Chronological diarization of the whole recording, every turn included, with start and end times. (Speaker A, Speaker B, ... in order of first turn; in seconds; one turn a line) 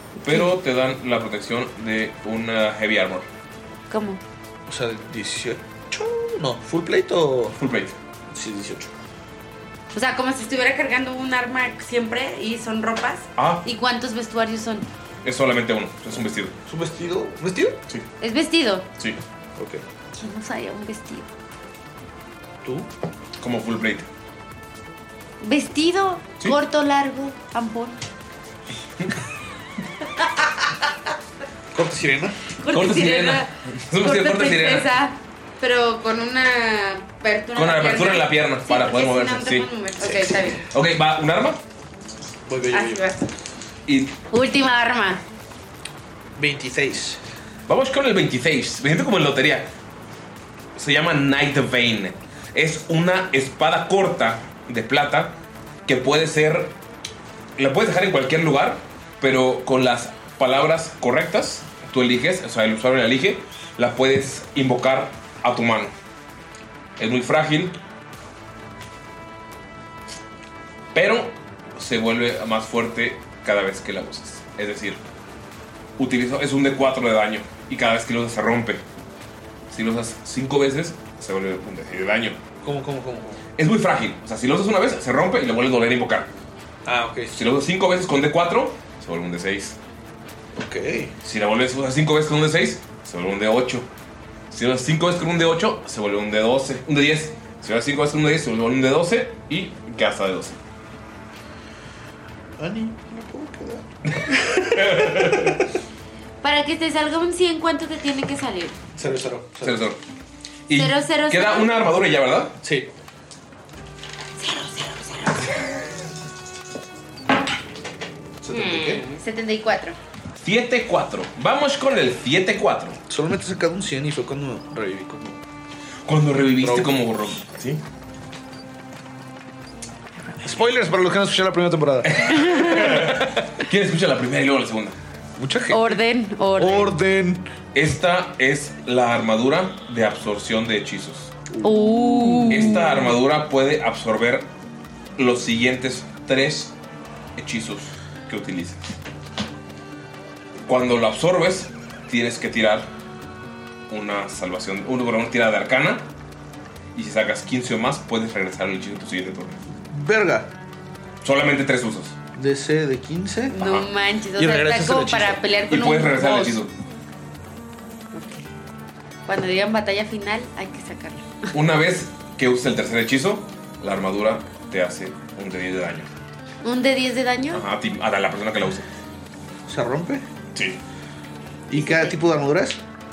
Speaker A: 0.2-3.3
Speaker B: 3.9-4.2
Speaker C: 4.7-7.6
Speaker A: 7.6-8.0
Speaker C: 8.3-8.9
Speaker B: 9.9-14.9
Speaker A: 13.4-13.6
Speaker A: 15.2-16.6
Speaker C: 16.7-17.8
Speaker B: 18.2-18.9
Speaker C: 19.6-19.8
Speaker B: 20.1-21.3
Speaker A: 23.4-24.1
Speaker B: 25.4-28.0
Speaker C: 31.7-32.4
Speaker B: 32.6-40.6
Speaker A: 32.7-34.9
Speaker A: 37.6-41.6
Speaker C: 42.5-43.0
Speaker B: 42.7-43.3
Speaker A: 43.9-44.1
Speaker B: 44.3-45.2
Speaker C: 46.4-47.2
Speaker A: 47.7-49.7
Speaker A: 50.8-55.4
Speaker A: 55.9-56.8
Speaker A: 57.6-65.9
Speaker A: 67.0-67.8
Speaker A: 70.9-75.0
Speaker A: 76.0-78.8
Speaker A: 79.7-82.4
Speaker C: 82.6-83.4
Speaker A: 83.6-86.3
Speaker C: 86.8-87.4
Speaker A: 87.3-89.8
Speaker C: 90.5-91.1
Speaker A: 91.2-93.9
Speaker A: 94.5-100.6
Speaker C: 102.6-105.6
Speaker A: 104.1-105.6
Speaker B: 106.4-108.8
Speaker C: 109.0-109.9
Speaker A: 109.6-110.0
Speaker A: 110.7-112.6
Speaker B: 110.7-112.0
Speaker C: 112.6-112.9
Speaker B: 114.4-115.7
Speaker C: 118.4-119.0
Speaker B: 118.5-120.0
Speaker A: 120.4-123.0
Speaker C: 123.1-125.4
Speaker A: 126.1-127.8
Speaker C: 126.6-127.0
Speaker C: 130.4-133.5
Speaker A: 132.1-134.9
Speaker B: 132.2-133.0
Speaker C: 135.4-136.0
Speaker B: 135.7-136.9
Speaker C: 136.6-137.4
Speaker A: 137.7-141.3
Speaker C: 141.5-142.9
Speaker B: 141.6-143.1
Speaker A: 142.5-144.5
Speaker A: 145.2-146.7
Speaker A: 147.4-148.9
Speaker A: 150.7-152.9
Speaker A: 153.9-156.1
Speaker A: 156.9-159.6
Speaker C: 159.9-160.5
Speaker A: 161.2-162.2
Speaker C: 162.4-163.6
Speaker B: 163.5-166.6
Speaker A: 163.6-163.9
Speaker C: 164.4-165.4
Speaker A: 165.7-166.7
Speaker B: 168.1-168.4
Speaker B: 169.3-171.3
Speaker A: 171.5-176.1
Speaker B: 176.6-177.6
Speaker A: 177.5-178.9
Speaker C: 179.7-180.2
Speaker C: 181.7-182.8
Speaker B: 181.7-182.1